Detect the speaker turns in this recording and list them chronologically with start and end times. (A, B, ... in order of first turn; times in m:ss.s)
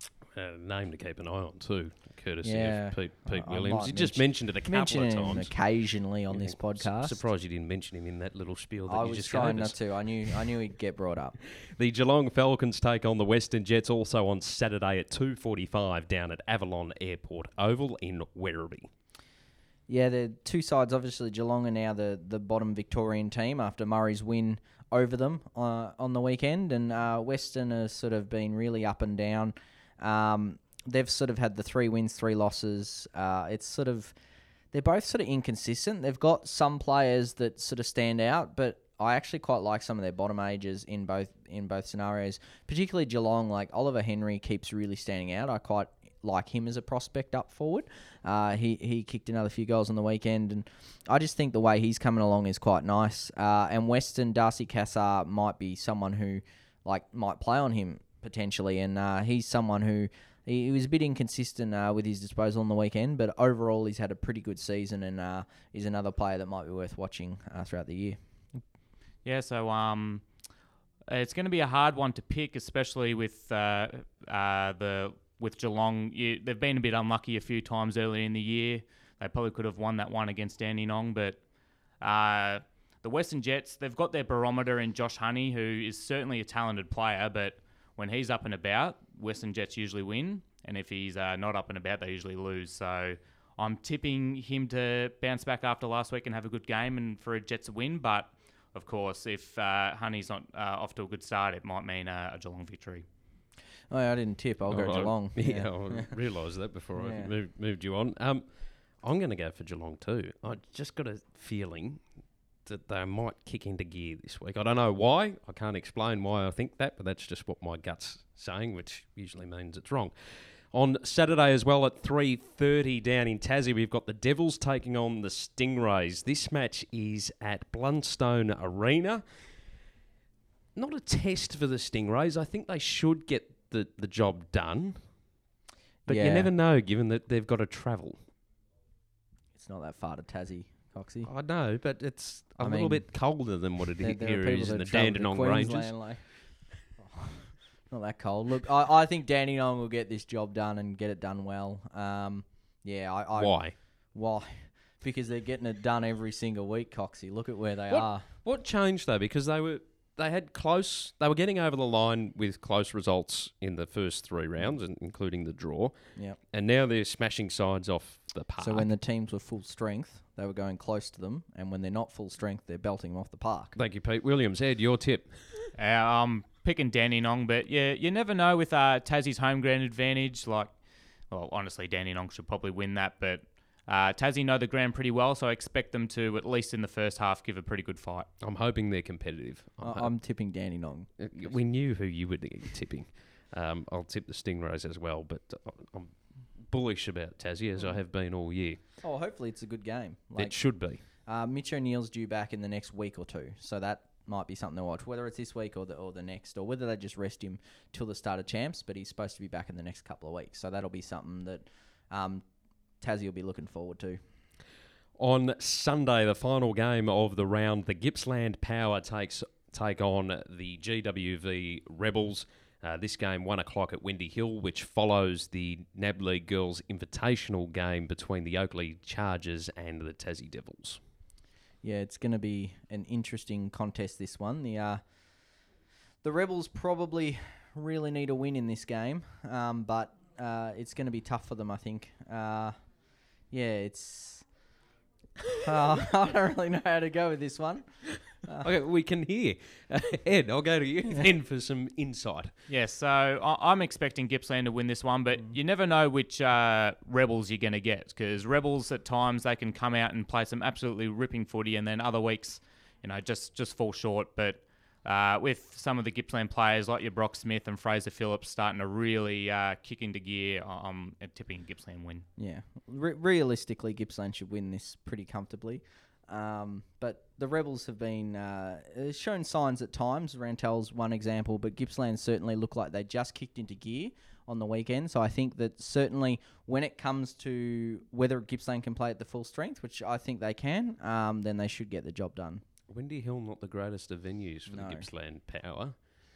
0:00.3-0:05.6 A
0:02.4-0:07.2 B
0:06.3-0:10.5 A
0:08.9-0:11.4 B
0:11.7-0:18.9 A
0:19.9-0:34.1 B
0:34.7-1:08.2 B
1:09.2-1:10.2 C
1:11.1-1:21.4 C
1:22.0-1:43.0 C
1:43.9-1:46.1 B
1:44.7-1:48.4 A
1:47.0-1:47.3 B
1:49.0-1:52.0 A
1:52.6-2:00.1 A
2:00.7-2:09.2 A
2:10.8-2:15.0 A
2:16.1-2:16.5 B
2:16.1-2:18.2 A
2:19.6-2:21.3 B
2:21.2-2:25.9 A
2:22.6-2:23.1 B
2:24.0-2:26.3 B
2:27.0-2:38.3 B
2:33.4-2:33.8 A
2:37.9-2:45.9 A
2:46.5-2:48.9 A
2:48.6-2:53.8 B
2:53.8-2:55.7 A
2:55.8-3:00.8 C
3:01.3-3:08.3 C
3:08.4-3:10.1 A
3:09.8-3:11.5 B
3:11.2-3:16.1 A
3:16.6-3:18.8 A
3:19.0-3:20.6 B
3:20.4-3:21.0 A
3:21.3-3:32.5 B
3:33.0-3:34.2 B
3:35.2-3:51.0 A
3:51.8-3:55.0 B
3:56.2-4:02.8 B
4:03.5-4:04.5 B
4:05.6-4:08.7 B
4:08.6-4:12.5 A
4:12.7-4:32.3 C
4:32.4-4:52.6 B
4:52.9-4:56.0 A
4:54.7-4:55.1 B